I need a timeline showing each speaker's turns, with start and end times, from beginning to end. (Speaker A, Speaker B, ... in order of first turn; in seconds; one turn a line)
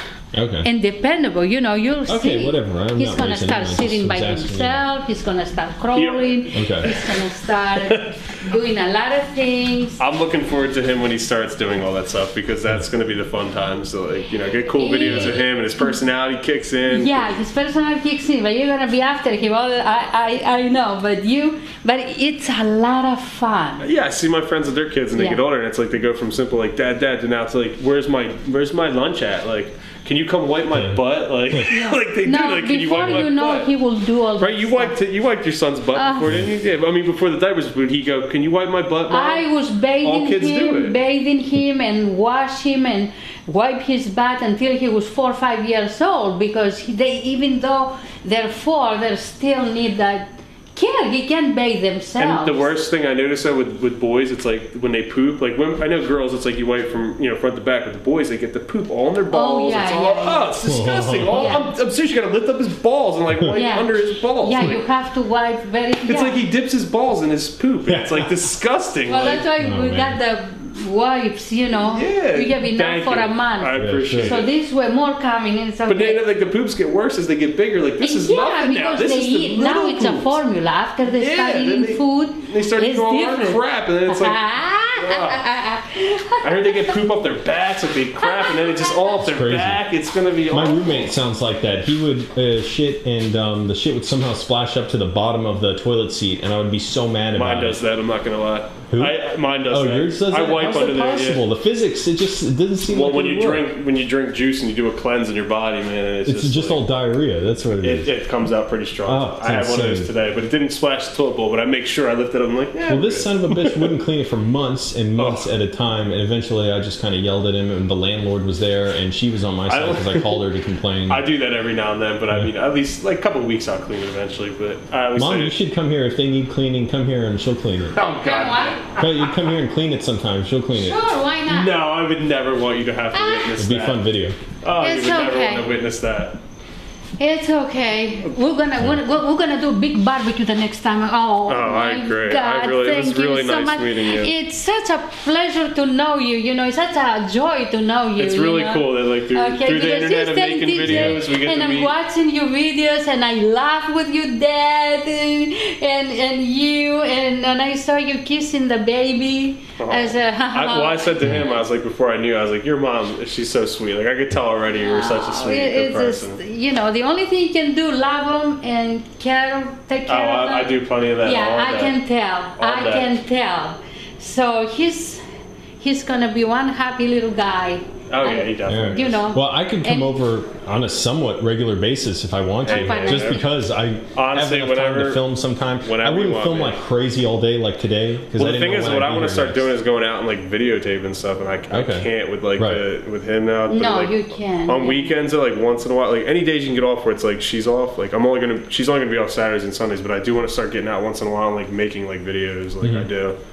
Speaker A: 0.3-0.7
Speaker B: 0.6-10.0
Speaker A: 2.1-4.8
Speaker C: 5.9-7.2
Speaker A: 6.5-6.9
Speaker C: 7.9-8.1
Speaker C: 10.0-17.4
Speaker B: 14.8-16.0
Speaker B: 16.9-23.8
Speaker C: 23.8-33.7
Speaker B: 25.1-25.4
Speaker B: 31.7-35.0
Speaker C: 34.4-39.5
Speaker B: 35.9-36.3
Speaker B: 39.1-52.7
Speaker C: 40.0-41.0
Speaker C: 52.2-64.8
Speaker B: 59.3-60.5
Speaker A: 60.6-61.5
Speaker B: 61.3-61.7
Speaker B: 63.5-66.4
Speaker C: 66.0-69.5
Speaker A: 67.9-68.3
Speaker B: 69.1-76.2
Speaker A: 69.5-70.2
Speaker C: 71.8-74.5
Speaker A: 73.8-74.4
Speaker C: 75.9-80.4
Speaker B: 78.0-86.9
Speaker C: 81.0-84.4
Speaker C: 84.9-85.5
Speaker C: 86.4-91.1
Speaker B: 88.3-88.9
Speaker A: 89.2-89.8
Speaker A: 90.5-97.8
Speaker C: 97.3-101.4
Speaker A: 98.9-103.7
Speaker C: 102.8-106.9
Speaker A: 106.2-108.1
Speaker C: 107.8-113.9
Speaker A: 109.0-110.1
Speaker A: 112.9-121.2
Speaker C: 115.2-115.5
Speaker C: 119.7-120.5
Speaker C: 121.1-125.6
Speaker A: 125.2-128.0
Speaker C: 127.9-129.0
Speaker B: 128.2-128.8
Speaker A: 129.0-131.0
Speaker B: 130.8-131.8
Speaker C: 131.5-134.0
Speaker B: 133.1-133.6
Speaker A: 133.6-134.4
Speaker C: 134.6-136.4
Speaker B: 134.8-135.7
Speaker B: 137.2-161.4
Speaker C: 141.5-144.3
Speaker C: 148.2-151.9
Speaker A: 150.8-151.2
Speaker C: 159.8-166.4
Speaker B: 164.8-175.2
Speaker C: 170.1-172.0
Speaker C: 172.5-173.1
Speaker B: 175.8-180.2
Speaker C: 178.1-179.2
Speaker A: 178.7-189.7
Speaker C: 182.6-183.4
Speaker B: 182.7-183.4
Speaker C: 184.1-185.2
Speaker C: 185.8-186.8
Speaker C: 188.3-203.4
Speaker A: 191.7-192.8
Speaker B: 193.7-195.1
Speaker A: 202.8-203.1